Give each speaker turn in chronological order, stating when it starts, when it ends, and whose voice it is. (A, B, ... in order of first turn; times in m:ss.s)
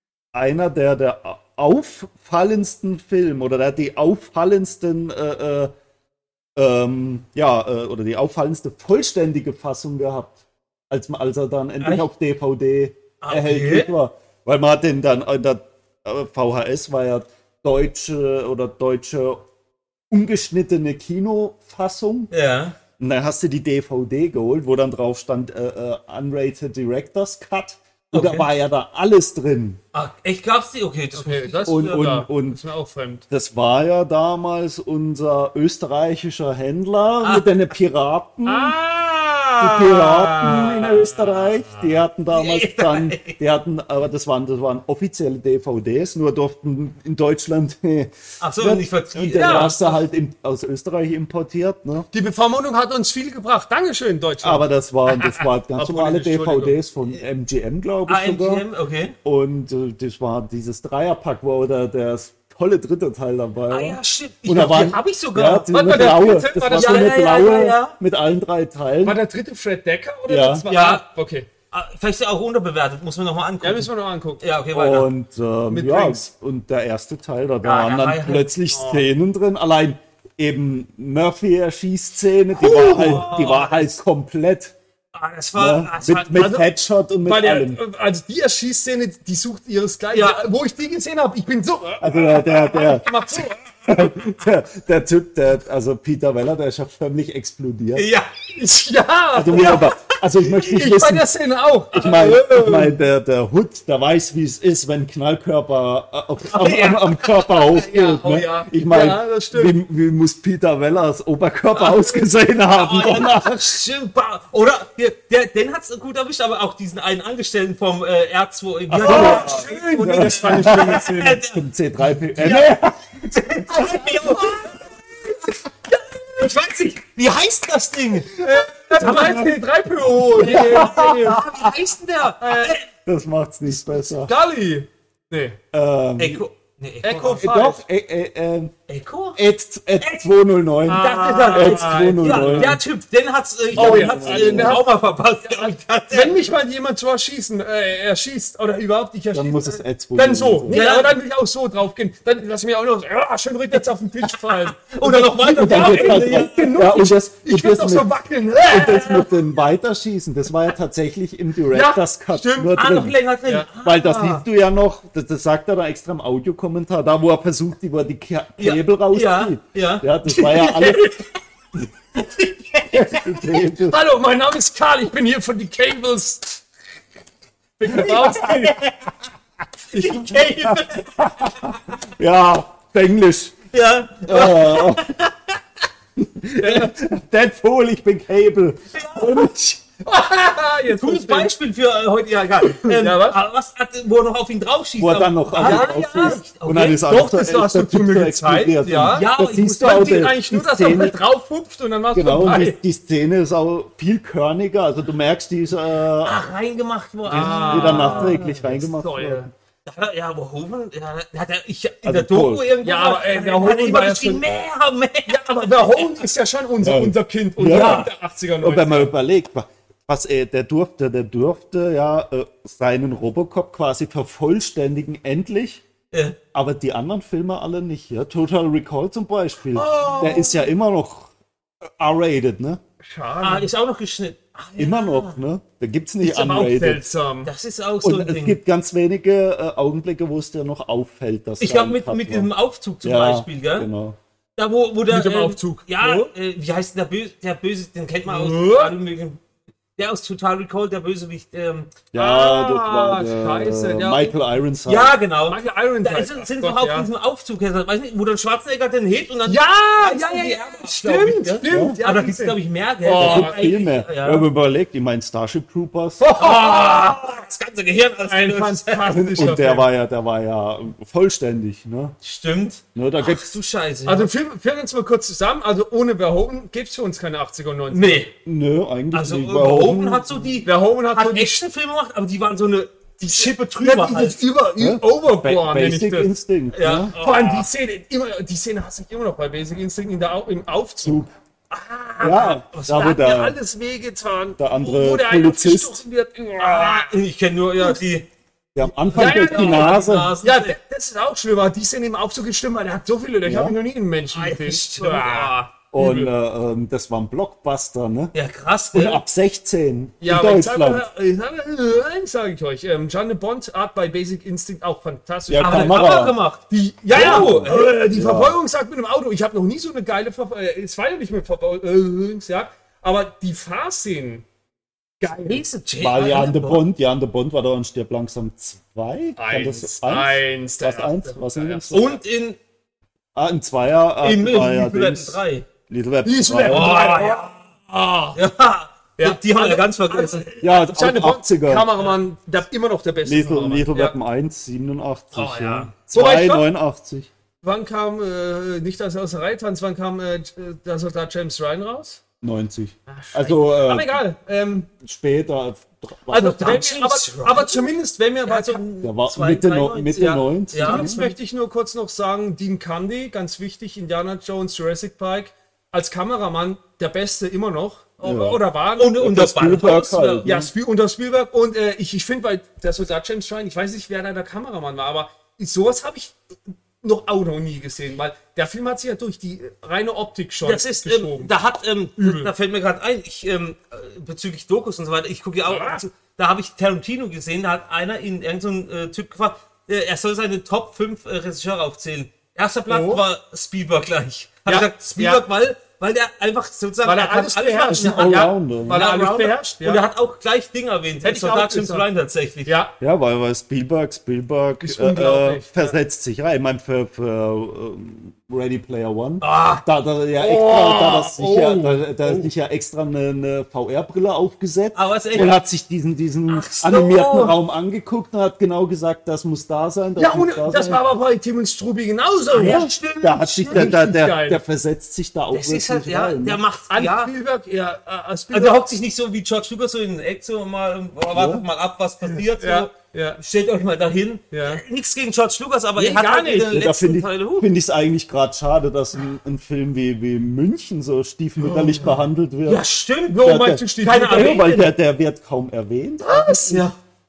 0:00.3-0:05.7 A
0:06.6-0:10.4 A
0:10.9-0:19.4 A
0:11.8-0:12.1 B
0:13.2-0:13.9 B
0:20.1-0:22.3 A
0:22.3-0:22.8 B
0:23.0-0:29.8 A
0:28.1-0:28.5 B
0:29.9-0:32.0 B
0:31.1-0:33.2 C
0:31.7-0:32.6 A
0:33.3-0:38.8 A
0:37.2-0:37.5 B
0:38.5-0:42.0 C
0:39.6-0:52.1 A
0:42.3-0:43.4 B
0:48.4-0:50.0 B
0:49.4-0:49.8 C
0:52.1-0:56.8 C
0:54.4-0:58.6 A
0:58.1-0:59.2 B
0:59.2-1:09.2 A
1:03.7-1:06.2 B
1:05.7-1:07.5 C
1:06.7-1:08.0 B
1:09.0-1:11.5 C
1:10.3-1:10.7 A
1:10.7-1:11.0 B
1:11.7-1:15.1 B
1:13.6-1:14.4 C
1:14.7-1:24.8 A
1:15.7-1:16.2 C
1:17.6-1:18.5 B
1:18.7-1:19.0 C
1:22.6-1:23.4 C
1:22.6-1:24.0 B
1:25.1-1:26.5 B
1:25.6-1:27.8 A
1:26.3-1:26.7 C
1:27.2-1:34.1 C
1:30.1-1:30.4 B
1:32.0-1:38.1 A
1:38.0-1:38.3 B
1:38.6-1:40.0 C
1:39.3-1:41.3 A
1:39.6-1:39.8 B
1:40.5-1:43.0 C
1:41.9-1:53.8 A
1:46.5-1:48.6 B
1:48.0-1:49.8 C
1:51.7-2:01.6 B
1:58.9-2:04.2 A
1:59.0-2:01.4 C
2:02.4-2:04.9 B
2:02.4-2:02.7 C
2:03.8-2:04.8 C
2:05.9-2:06.5 C
2:06.3-2:08.4 B
2:08.4-2:11.5 C
2:09.0-2:09.6 A
2:09.0-2:09.5 B
2:10.4-2:11.7 A
2:10.4-2:12.8 B
2:12.4-2:12.8 C
2:13.0-2:14.3 A
2:14.2-2:15.6 C
2:15.7-2:16.4 A
2:16.2-2:17.5 B
2:17.0-2:17.8 C
2:17.4-2:18.7 A
2:18.9-2:19.4 B
2:19.4-2:22.8 A
2:20.0-2:20.3 B
2:20.9-2:22.8 C
2:20.9-2:26.4 B
2:23.7-2:24.8 A
2:23.8-2:39.4 C
2:29.3-2:30.8 A
2:30.7-2:31.1 B
2:34.3-2:36.8 B
2:35.5-2:38.1 A
2:38.6-2:43.2 A
2:41.7-2:42.8 C
2:42.8-2:44.4 B
2:43.8-2:51.2 A
2:48.6-2:51.2 B
2:52.2-2:53.4 B
2:52.9-2:54.0 A
2:53.8-2:56.6 C
2:57.8-2:58.8 C
2:57.9-2:58.3 A
2:58.0-2:59.0 B
2:59.9-3:00.8 C
2:59.9-3:01.8 B
3:01.2-3:03.6 A
3:03.7-3:05.6 B
3:04.3-3:05.1 A
3:06.2-3:09.8 A
3:06.6-3:06.9 C
3:08.9-3:09.5 B
3:10.0-3:11.5 C
3:10.9-3:17.1 B
3:12.8-3:13.4 C
3:15.0-3:21.2 A
3:15.6-3:22.8 C
3:19.0-3:20.3 B
3:22.1-3:26.4 A
3:26.2-3:28.6 B
3:27.3-3:29.5 C
3:27.3-3:29.5 A
3:29.8-3:36.2 B
3:32.0-3:32.7 A
3:32.8-3:34.6 C
3:35.3-3:39.1 C
3:36.8-3:38.1 A
3:37.7-3:38.1 B
3:38.6-3:45.8 A
3:46.1-3:46.4 B
3:46.5-3:51.3 A
3:49.7-3:50.7 C
3:51.9-3:52.8 A
3:53.0-3:53.7 C
3:53.4-3:55.4 B
3:54.8-3:57.0 A
3:56.2-3:57.5 C
3:57.4-3:58.6 B
3:58.0-4:02.5 A
4:01.6-4:03.9 B
4:03.0-4:04.2 A
4:04.6-4:09.4 B
4:05.1-4:06.3 C
4:08.3-4:09.0 C
4:10.0-4:12.0 B
4:12.1-4:15.2 A
4:12.2-4:14.4 C
4:14.9-4:24.5 B
4:15.5-4:17.1 C
4:19.5-4:23.7 C
4:21.6-4:22.0 A
4:23.2-4:26.2 A
4:26.2-4:27.4 C
4:26.4-4:29.2 B
4:28.3-4:29.9 C
4:29.1-4:32.2 A
4:32.2-4:34.3 B
4:33.0-4:33.4 A
4:34.1-4:38.3 C
4:37.9-4:38.3 B
4:38.4-4:40.5 A
4:39.1-4:44.4 B
4:40.6-4:41.6 C
4:43.2-4:46.4 C
4:44.8-4:47.1 A
4:46.7-4:47.7 B
4:47.2-4:51.2 C
4:51.0-4:51.3 A
4:51.7-4:57.2 C
4:52.2-4:53.6 A
4:52.3-4:53.2 B
4:54.6-4:56.0 A
4:56.6-4:58.3 B
4:58.8-5:00.3 A
4:58.8-5:00.8 B
4:59.1-5:06.3 C
5:03.4-5:03.8 A
5:04.3-5:05.7 B
5:05.9-5:08.3 A
5:08.3-5:09.2 B
5:08.9-5:11.0 A
5:10.2-5:24.4 C
5:15.5-5:16.4 A
5:15.6-5:17.9 B
5:17.1-5:18.6 A
5:25.2-5:25.6 C
5:25.3-5:26.8 B
5:26.0-5:32.2 A
5:29.4-5:32.1 C
5:31.9-5:32.6 B
5:33.4-5:37.1 A
5:34.2-5:35.7 B
5:36.2-5:38.4 C
5:36.7-5:37.6 B
5:38.4-5:40.6 B
5:39.2-5:44.2 C
5:40.6-5:41.9 A
5:43.2-5:47.3 A
5:45.3-5:45.9 B
5:46.1-5:46.7 C
5:47.6-5:52.2 C
5:52.4-5:54.2 A
5:53.1-5:54.9 C
5:55.0-5:56.8 A
5:56.3-5:58.9 C
5:56.3-5:57.9 B
5:58.4-6:01.4 B
5:59.0-6:01.2 A
6:00.7-6:09.3 C
6:08.2-6:08.6 A
6:09.0-6:10.5 B
6:09.2-6:10.7 A
6:10.4-6:21.5 C
6:20.6-6:42.8 B
6:22.2-6:22.5 C
6:25.7-6:26.0 C
6:32.9-6:33.2 C
6:34.7-6:35.4 C
6:37.0-6:40.0 C
6:37.9-6:39.0 A
6:41.2-6:42.1 C
6:42.7-6:42.9 C
6:43.0-7:01.0 A
6:44.8-6:46.0 C
6:49.4-6:49.8 B
6:50.4-6:52.5 C
6:54.9-6:55.6 B
6:56.5-6:57.6 B
7:00.2-7:02.9 C
7:02.5-7:03.9 B
7:02.6-7:06.6 A
7:03.7-7:04.6 C
7:05.5-7:07.3 B
7:06.9-7:08.9 C
7:08.5-7:17.7 B
7:11.3-7:11.6 A
7:12.2-7:13.4 C
7:14.5-7:14.8 C
7:16.0-7:16.8 C
7:16.7-7:22.8 A
7:22.6-7:24.9 B
7:23.3-7:24.6 C
7:23.4-7:26.8 A
7:26.2-7:26.9 C
7:26.7-7:27.0 B